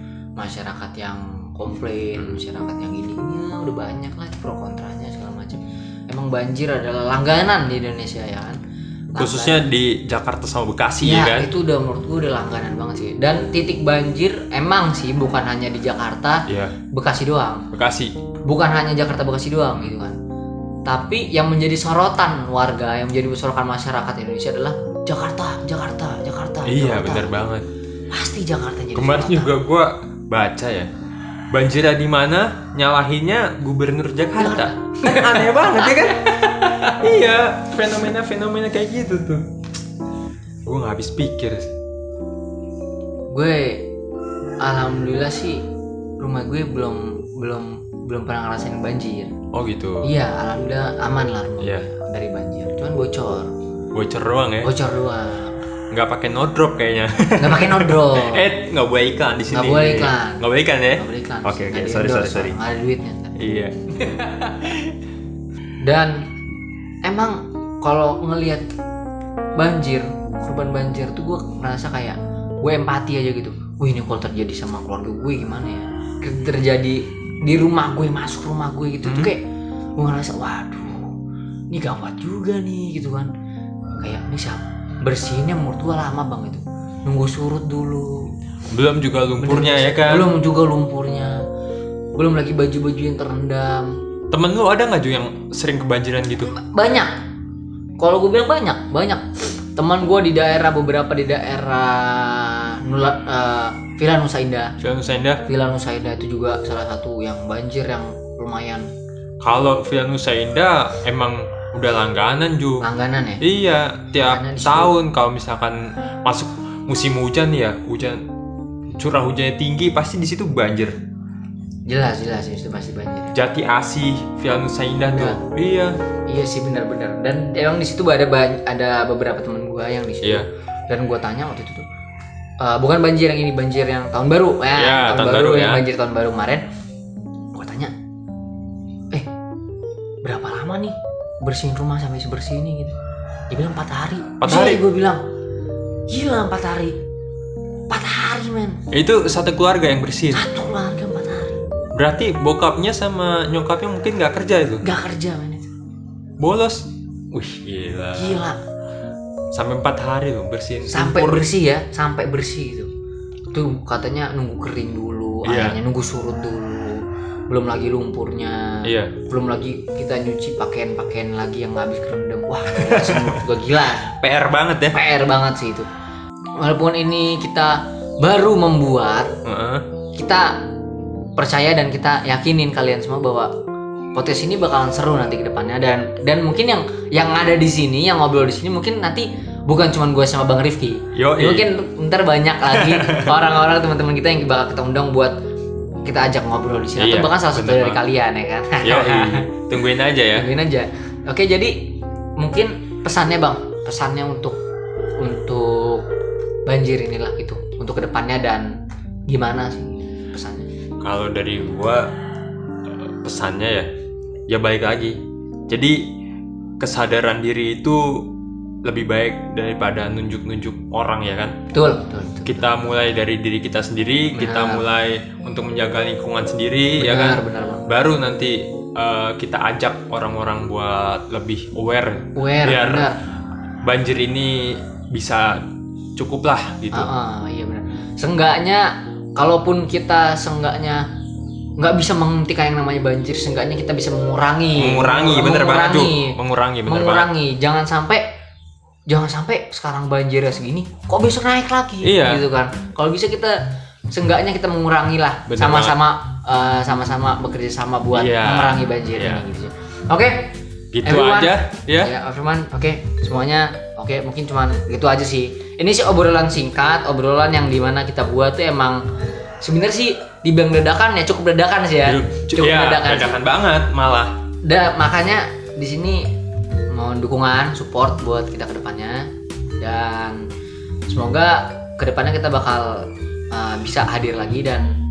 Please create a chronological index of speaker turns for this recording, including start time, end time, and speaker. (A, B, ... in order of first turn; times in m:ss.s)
0:00.4-0:08.6 A
0:09.1-0:09.7 A
0:09.2-0:11.5 B
0:11.0-0:17.7 A
0:16.5-0:16.8 B
0:17.7-0:18.1 B
0:18.5-0:20.2 A
0:20.9-0:27.4 A
0:26.7-0:27.7 B
0:28.1-0:29.6 A
0:29.0-0:30.9 B
0:31.5-0:39.5 B
0:34.4-0:37.0 A
0:40.7-0:41.7 B
0:43.3-0:43.9 A
0:44.6-0:45.6 A
0:46.2-0:49.3 A
0:49.5-0:50.1 B
0:50.0-0:53.5 A
0:53.9-0:54.7 B
0:54.6-0:55.6 A
0:55.9-1:02.6 B
0:57.4-0:58.5 A
0:59.5-1:03.4 A
1:03.4-1:03.8 B
1:04.0-1:04.8 A
1:05.8-1:06.3 A
1:07.0-1:08.7 A
1:09.6-1:19.4 A
1:19.0-1:19.3 B
1:20.0-1:21.1 A
1:21.7-1:23.3 A
1:24.0-1:28.3 A
1:28.7-1:30.3 B
1:29.4-1:31.4 A
1:32.2-1:34.0 A
1:34.3-1:36.5 B
1:36.5-1:37.1 A
1:38.0-1:39.2 A
1:39.8-1:44.7 A
1:44.8-1:45.4 B
1:45.5-1:48.9 A
1:49.4-1:52.8 B
1:52.8-1:53.4 A
1:53.4-1:58.2 B
1:54.2-1:55.0 A
1:59.0-2:01.0 B
2:01.9-2:03.4 A
2:03.4-2:06.0 B
2:05.1-2:05.4 A
2:06.3-2:11.9 A
2:12.6-2:16.6 A
2:14.8-2:15.8 B
2:17.6-2:17.9 A
2:20.2-2:23.0 A
2:23.5-2:25.2 A
2:24.4-2:24.8 B
2:26.1-2:27.0 A
2:27.9-2:28.8 A
2:28.9-2:30.5 B
2:30.3-2:31.6 A
2:32.0-2:34.8 B
2:34.8-2:35.7 A
2:36.4-2:38.4 B
2:38.2-2:38.6 A
2:39.5-2:41.5 B
2:40.9-2:42.9 A
2:43.5-2:54.1 A
2:45.4-2:45.8 B
2:48.8-2:49.1 B
2:52.7-2:53.4 B
2:54.1-2:55.0 B
2:54.9-2:55.9 A
2:56.6-2:59.3 A
2:59.4-2:59.8 B
3:00.2-3:00.7 A
3:01.4-3:03.5 A
3:04.2-3:15.4 A
3:11.1-3:11.7 B
3:12.7-3:13.4 B
3:16.0-3:19.5 A
3:17.0-3:18.0 B
3:18.8-3:20.5 B
3:20.3-3:24.6 A
3:25.2-3:26.1 A
3:26.7-3:30.7 A
3:31.0-3:32.1 B
3:32.9-3:33.9 B
3:34.5-3:36.1 B
3:36.8-3:38.3 B
3:38.8-3:41.6 B
3:41.7-3:42.7 A
3:42.5-3:53.1 B
3:44.3-3:44.8 A
3:47.0-3:47.9 A
3:52.4-3:53.2 A
3:53.8-3:55.6 B
3:56.2-3:57.1 B
3:56.9-4:01.0 A
4:01.8-4:06.4 A
4:04.8-4:07.3 B
4:06.9-4:08.3 A
4:09.1-4:29.0 A
4:12.0-4:12.4 B
4:15.5-4:16.0 B
4:18.1-4:19.4 B
4:20.9-4:22.1 B
4:29.6-4:33.4 A
4:32.0-4:34.3 B
4:34.6-4:36.3 A
4:36.9-4:39.3 A
4:39.8-4:40.5 A
4:41.1-4:44.9 A